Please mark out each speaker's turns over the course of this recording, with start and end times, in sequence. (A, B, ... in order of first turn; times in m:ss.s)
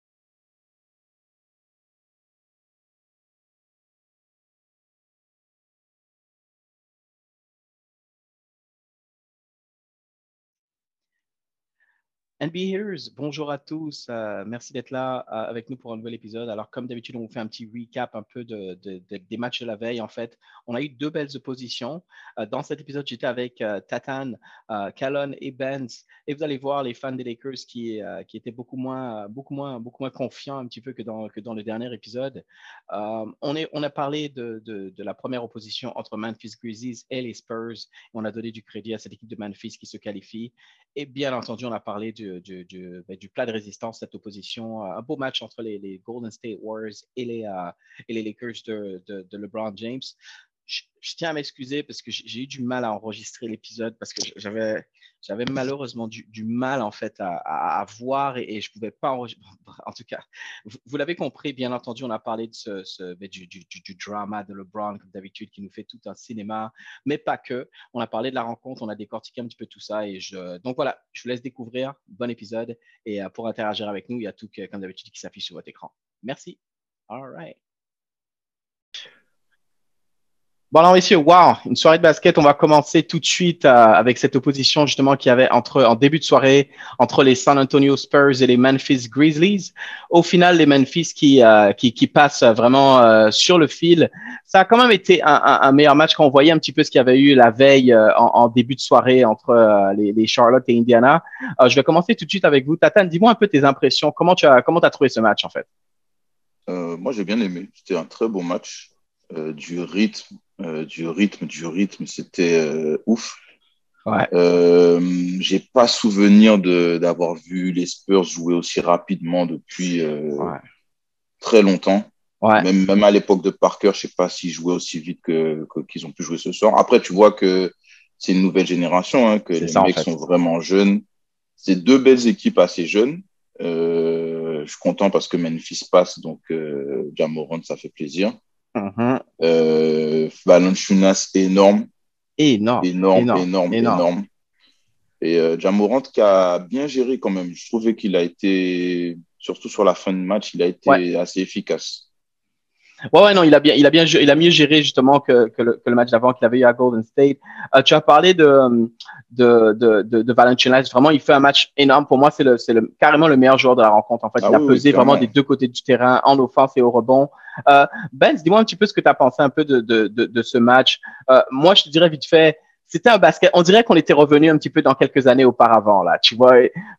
0:12.4-0:50.1 A
0:50.7-1:16.6 A
1:17.1-1:17.6 A
1:20.7-1:45.6 A
1:46.7-1:53.4 B
1:54.3-2:00.5 B
2:01.4-2:11.0 B
2:09.6-2:10.1 A
2:11.6-2:18.4 B
2:18.8-2:19.2 A
2:19.4-2:21.9 B
2:22.4-2:24.1 A
2:22.8-2:24.2 B
2:25.2-2:32.1 B
2:33.1-2:56.7 A
2:44.4-2:45.3 B